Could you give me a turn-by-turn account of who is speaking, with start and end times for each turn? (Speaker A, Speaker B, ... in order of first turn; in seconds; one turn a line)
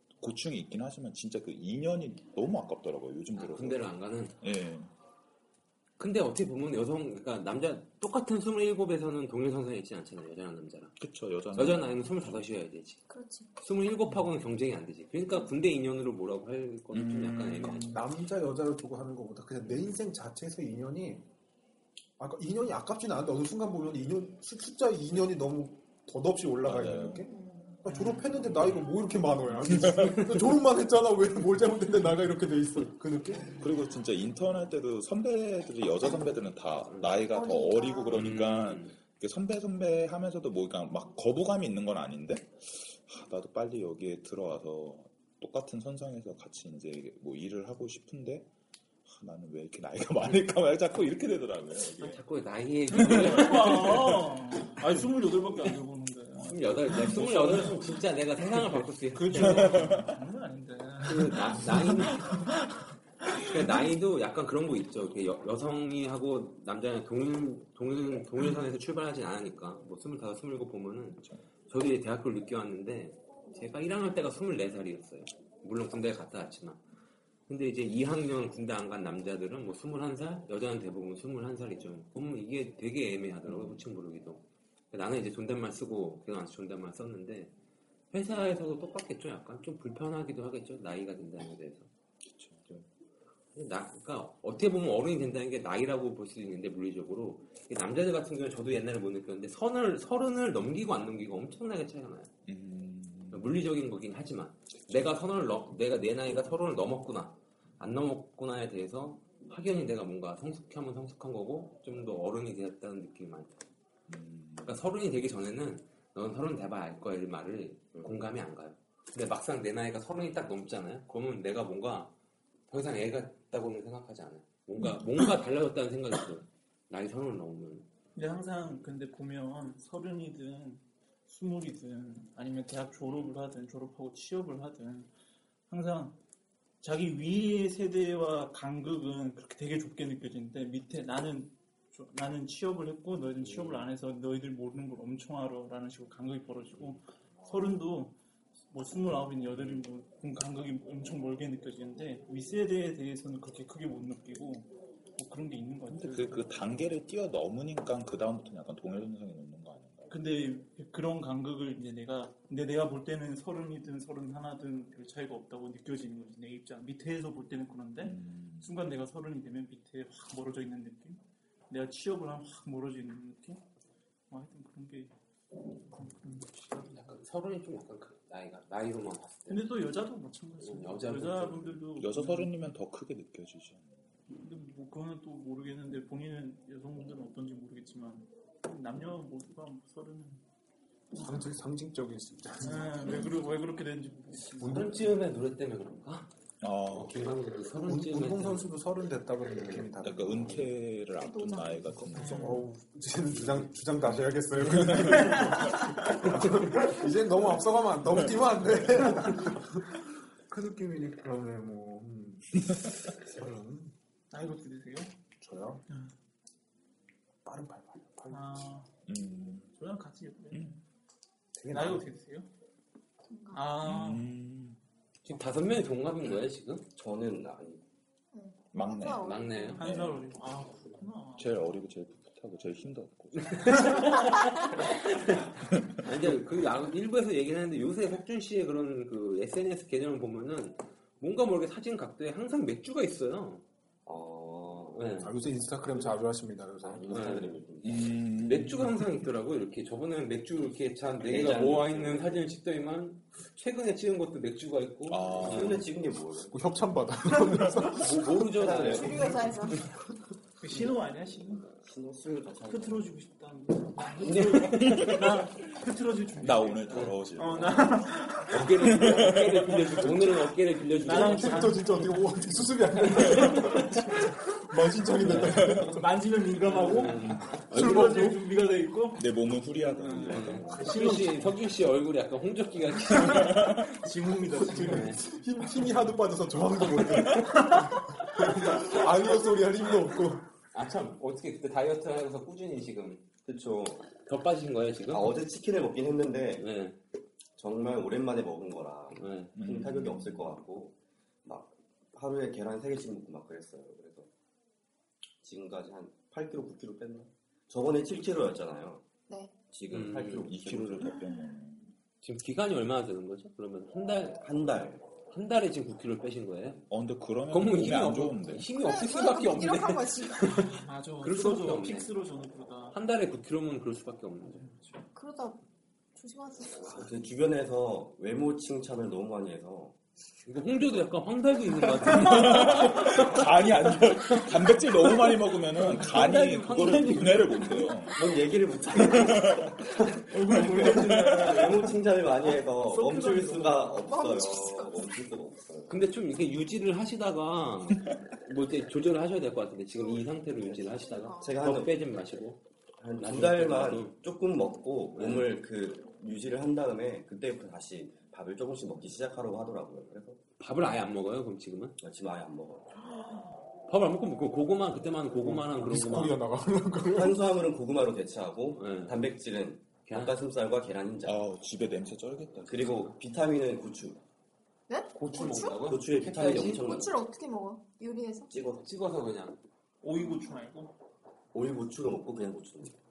Speaker A: 0.2-4.9
Speaker B: 3.4-4.4
Speaker B: 6.0-11.0
Speaker A: 11.0-12.4
Speaker B: 11.5-13.0
Speaker C: 13.1-13.6
Speaker B: 13.6-18.0
Speaker A: 16.9-18.0
Speaker D: 17.7-21.3
Speaker D: 22.2-27.3
Speaker A: 26.6-27.3
Speaker C: 27.3-27.8
Speaker D: 27.8-33.6
Speaker E: 27.9-28.4
Speaker A: 29.7-30.2
Speaker A: 33.6-48.5
Speaker C: 37.3-38.3
Speaker B: 38.1-39.0
Speaker A: 49.1-52.2
Speaker B: 52.0-54.2
Speaker E: 52.9-57.8
Speaker A: 53.2-54.0
Speaker A: 56.4-57.9
Speaker B: 56.4-59.9
Speaker E: 58.5-63.8
Speaker A: 59.5-60.1
Speaker B: 61.0-62.5
Speaker B: 63.4-76.8
Speaker B: 77.5-87.5
Speaker A: 83.5-83.8
Speaker B: 88.1-91.9
Speaker A: 92.2-92.9
Speaker B: 93.5-102.3
Speaker A: 102.5-103.6
Speaker B: 103.3-113.6
Speaker A: 114.1-114.8
Speaker B: 114.6-122.1
Speaker B: 122.7-127.9
Speaker E: 128.2-135.1
Speaker E: 135.7-136.2
Speaker E: 136.8-148.2
Speaker B: 143.4-143.9
Speaker E: 148.7-156.5
Speaker A: 155.9-160.1
Speaker E: 160.1-173.6
Speaker A: 168.0-168.7
Speaker E: 174.3-175.1
Speaker E: 175.9-176.9
Speaker B: 176.7-179.7
Speaker E: 179.5-182.5
Speaker B: 180.6-181.8
Speaker A: 182.0-184.0
Speaker E: 184.3-190.4
Speaker D: 191.1-193.4
Speaker E: 192.6-194.9
Speaker B: 194.6-196.3
Speaker D: 194.6-195.1
Speaker A: 196.6-197.3
Speaker B: 196.9-198.7
Speaker D: 197.8-200.7
Speaker A: 200.0-202.7
Speaker C: 201.2-202.2
Speaker E: 202.1-202.7
Speaker D: 202.2-213.9
Speaker E: 205.1-206.1
Speaker E: 214.3-215.1
Speaker D: 215.4-215.8
Speaker D: 217.4-218.7
Speaker E: 218.3-218.9
Speaker A: 219.1-219.7
Speaker E: 219.8-220.8
Speaker D: 221.6-222.1
Speaker E: 221.7-222.5
Speaker C: 223.3-223.8
Speaker E: 223.5-224.3
Speaker A: 223.8-224.8
Speaker B: 225.2-226.9
Speaker F: 227.0-227.8
Speaker C: 228.3-229.9
Speaker A: 228.7-230.4
Speaker B: 229.2-229.9
Speaker E: 229.8-231.5
Speaker A: 231.4-234.1
Speaker B: 233.4-243.6
Speaker A: 235.7-236.3
Speaker F: 244.1-245.3
Speaker B: 244.9-245.3
Speaker D: 245.2-247.5
Speaker F: 246.8-248.4
Speaker B: 247.1-247.5
Speaker A: 247.8-249.1
Speaker B: 248.4-255.8
Speaker F: 251.2-252.4
Speaker A: 255.1-255.9
Speaker F: 255.4-256.6
Speaker D: 256.5-258.3
Speaker B: 257.9-259.5
Speaker F: 258.5-259.5
Speaker C: 258.8-259.8
Speaker E: 260.6-261.7
Speaker F: 261.8-263.1
Speaker E: 262.7-268.7
Speaker B: 264.2-265.2
Speaker A: 264.8-265.3
Speaker A: 266.4-268.1
Speaker B: 268.5-271.8
Speaker A: 268.8-270.1
Speaker E: 271.0-274.3
Speaker D: 271.1-276.1
Speaker B: 275.3-275.6
Speaker A: 275.4-275.9
Speaker E: 275.5-279.3
Speaker B: 276.6-278.1
Speaker D: 277.7-278.4
Speaker A: 279.2-280.8
Speaker E: 279.8-281.6
Speaker B: 280.3-283.7
Speaker F: 280.4-280.8
Speaker A: 283.2-284.0
Speaker E: 283.2-286.0
Speaker D: 284.6-290.5
Speaker B: 284.8-285.2
Speaker E: 287.4-288.1
Speaker B: 290.7-293.3
Speaker F: 293.4-294.1
Speaker B: 294.1-295.3
Speaker F: 295.1-296.7
Speaker B: 296.6-297.0
Speaker F: 297.6-304.3
Speaker B: 299.2-299.5
Speaker A: 299.6-300.6
Speaker F: 305.4-309.1
Speaker C: 309.3-309.5
Speaker F: 309.7-311.2
Speaker B: 309.9-310.5
Speaker A: 310.2-311.9
Speaker B: 312.2-314.4
Speaker F: 314.4-315.1
Speaker B: 315.3-316.9
Speaker A: 316.9-318.7
Speaker B: 317.5-322.1
Speaker C: 318.7-320.6
Speaker E: 320.6-323.0
Speaker B: 322.9-324.9
Speaker C: 325.1-325.6
Speaker C: 326.1-327.1
Speaker F: 326.8-330.0
Speaker B: 330.4-333.5
Speaker A: 332.1-338.3
Speaker B: 335.8-337.9
Speaker F: 338.1-346.0
Speaker A: 339.0-339.8
Speaker E: 340.3-342.0
Speaker A: 340.9-341.6
Speaker E: 342.8-344.0
Speaker C: 344.0-345.1
Speaker B: 345.9-352.6
Speaker C: 349.9-351.6
Speaker F: 351.4-352.0
Speaker F: 353.0-360.4
Speaker B: 353.2-354.2
Speaker B: 355.2-355.5
Speaker B: 360.6-362.0
Speaker F: 362.0-362.9
Speaker B: 363.9-366.4
Speaker D: 365.4-367.5
Speaker F: 367.1-371.4
Speaker B: 368.8-369.2
Speaker B: 370.1-370.4
Speaker A: 371.2-373.1
Speaker F: 372.6-374.2
Speaker C: 374.9-375.9
Speaker B: 375.1-377.0
Speaker F: 375.8-377.1
Speaker C: 376.6-378.5
Speaker F: 378.5-378.9
Speaker B: 378.8-379.6
Speaker E: 380.0-380.9
Speaker C: 380.2-380.5
Speaker F: 381.5-383.0